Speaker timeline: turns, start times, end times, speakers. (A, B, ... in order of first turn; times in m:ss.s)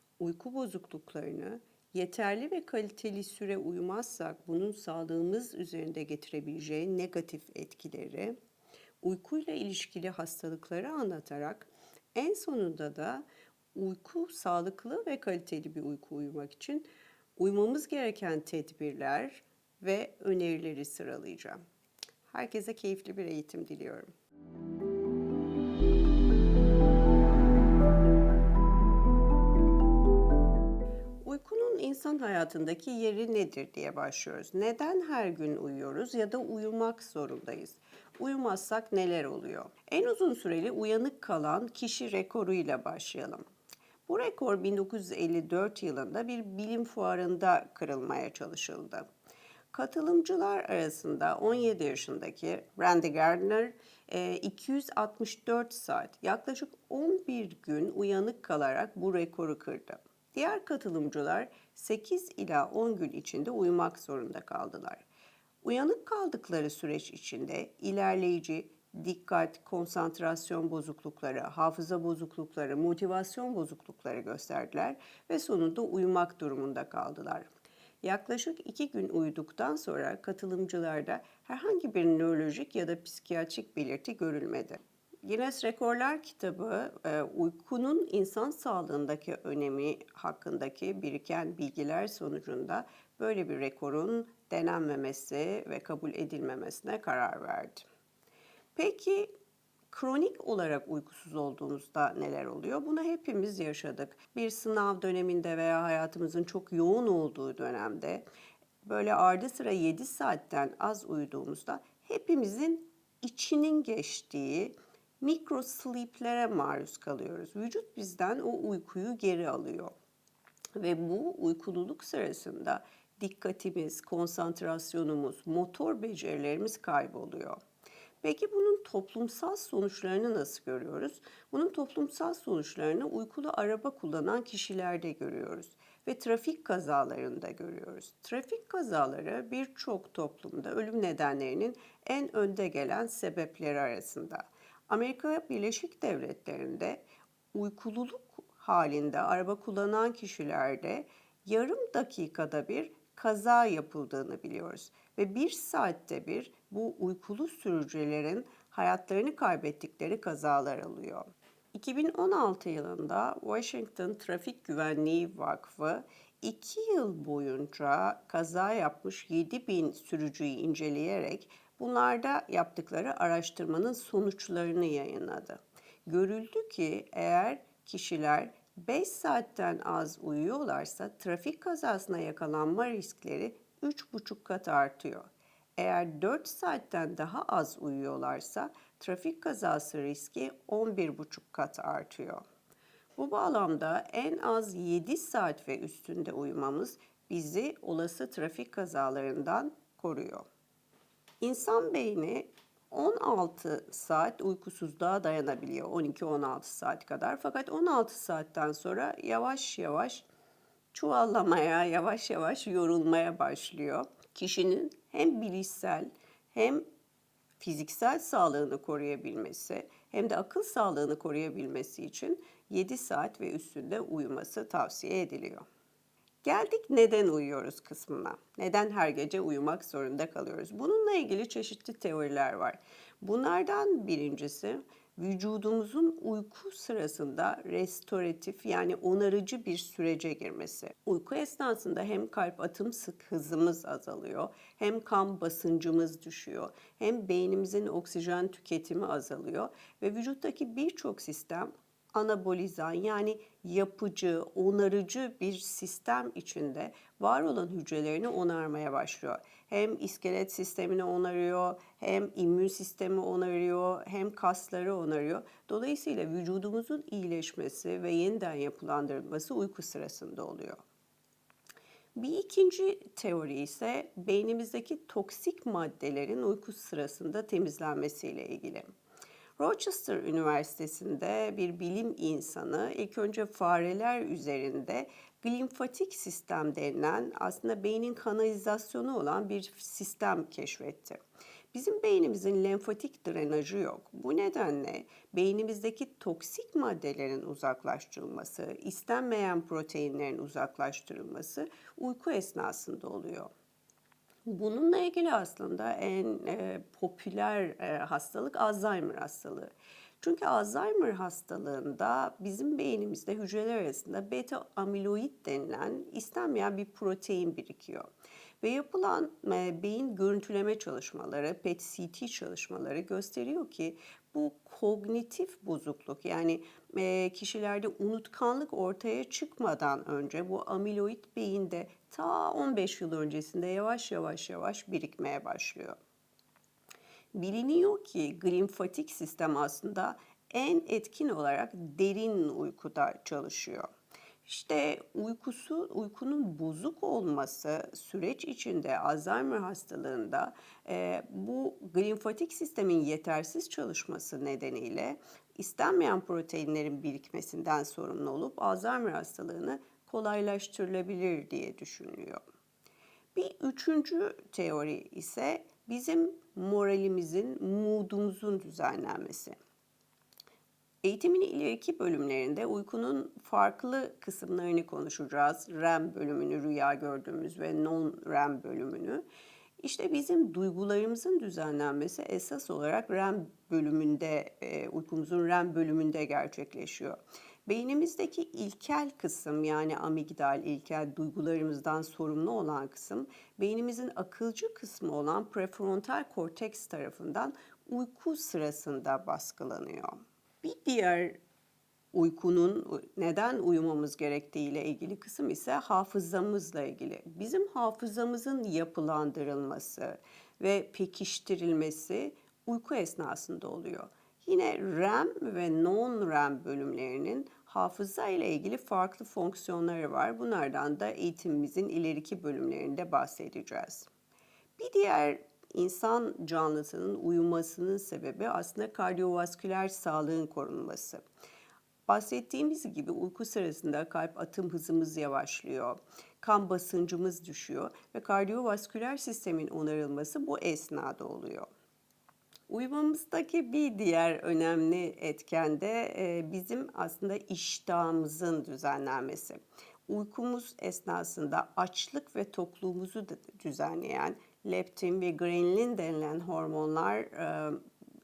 0:00.2-0:08.4 A
0:09.0-0:21.6 A
0:22.3-0:24.1 A
0:31.2-0:43.4 A
0:44.1-0:49.1 A
0:49.7-1:05.0 A
1:05.6-1:17.5 A
1:18.0-1:37.8 A
1:38.8-1:39.3 A
1:39.9-1:48.2 A
1:48.8-1:59.9 A
2:00.8-2:07.6 A
2:08.2-3:12.4 A
3:13.2-3:20.4 A
3:21.4-3:30.2 A
3:30.9-3:36.8 A
3:37.6-3:45.6 A
3:46.4-4:30.8 A
4:32.2-4:38.9 A
4:39.6-4:51.2 A
4:51.7-5:03.5 A
5:04.4-5:18.1 A
5:18.6-5:36.0 A
5:37.3-5:43.9 A
5:44.4-6:02.4 A
6:03.3-6:09.6 A
6:11.0-6:19.2 A
6:19.8-6:41.4 A
6:42.1-7:04.1 A
7:04.8-7:11.2 A
7:12.1-7:21.7 A
7:22.7-7:37.8 A